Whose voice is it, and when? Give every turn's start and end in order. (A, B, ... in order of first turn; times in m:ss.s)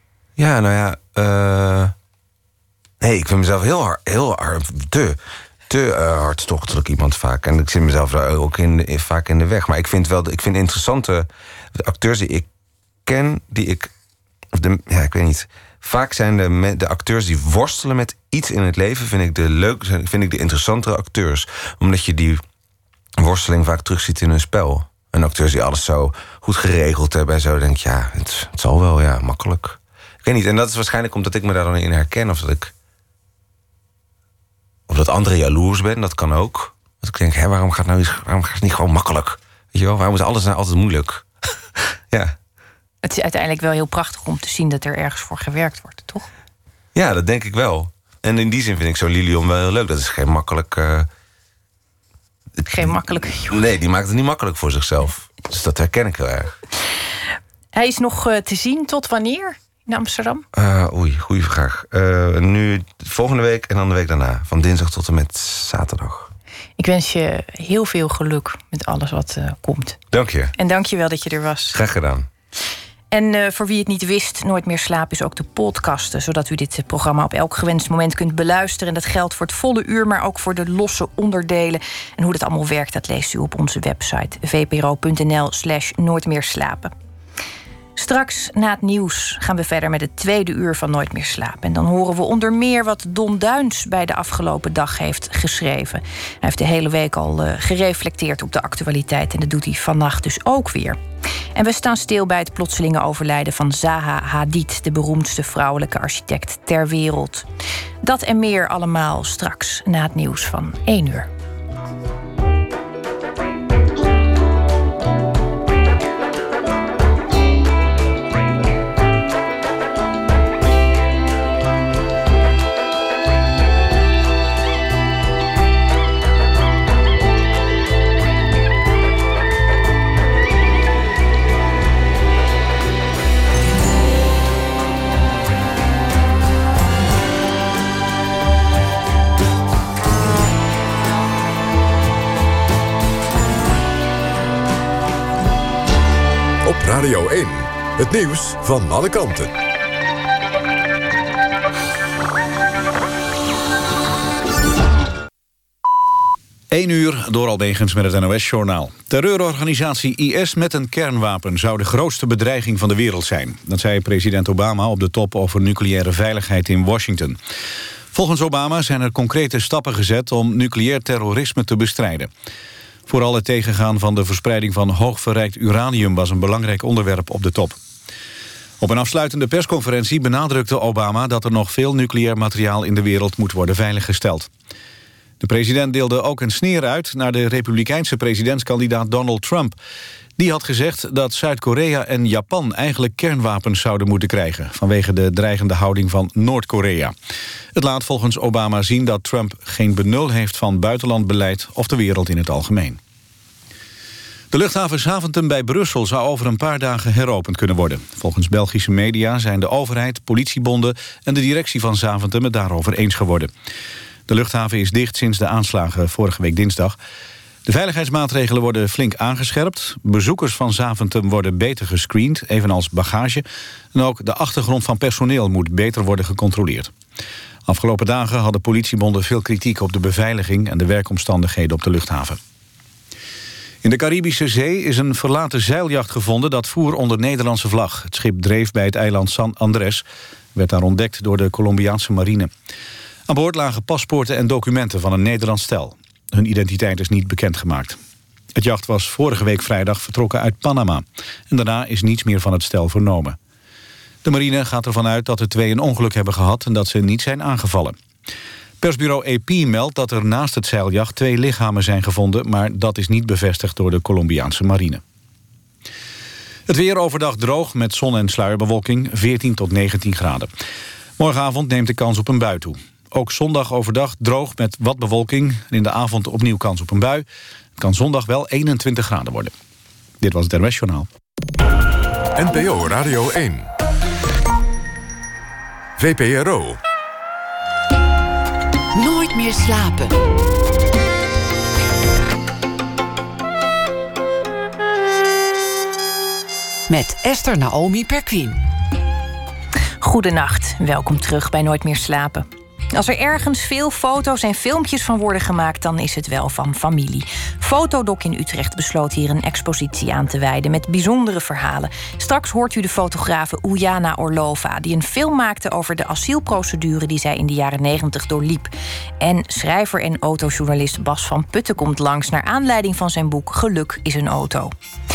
0:00.4-0:01.9 A
0:03.0-0:12.5 A
0:13.0-0:13.9 A
0:14.5-0:22.4 A
0:23.2-0:32.7 A
0:34.9-0:41.2 A
0:43.0-0:46.3 B
0:46.9-0:51.1 A
0:52.6-0:53.6 B
0:52.8-0:56.6 A
0:57.7-1:00.4 B
1:00.5-1:06.3 A
1:06.8-1:10.0 B
1:10.1-1:10.5 A
1:10.6-1:11.8 B
1:11.7-1:12.3 A
1:13.1-1:26.9 B
1:28.0-1:41.0 B
1:41.5-1:47.4 B
1:48.0-1:51.3 B
2:26.6-2:29.5 C
2:36.7-2:47.4 D
2:48.1-2:52.3 D
2:53.1-2:57.8 D
2:58.8-3:04.5 D
3:05.4-3:09.8 D
3:10.4-3:17.1 D
3:17.7-3:23.0 D
3:24.5-3:33.5 D
3:34.3-3:37.0 D
3:37.6-3:46.9 D
3:47.7-3:52.4 D
3:53.8-4:00.0 D
4:00.5-4:02.5 D
4:03.3-4:08.0 D
4:08.5-4:13.4 D
4:14.2-4:18.0 D
4:18.8-4:25.0 D
4:26.7-4:30.5 D
4:31.2-4:37.2 D
4:37.8-4:39.5 D
4:40.2-4:41.1 D
4:42.3-4:43.7 C
4:46.0-4:46.8 C
4:48.9-4:50.2 E
4:56.9-4:58.6 E
5:00.0-5:24.7 B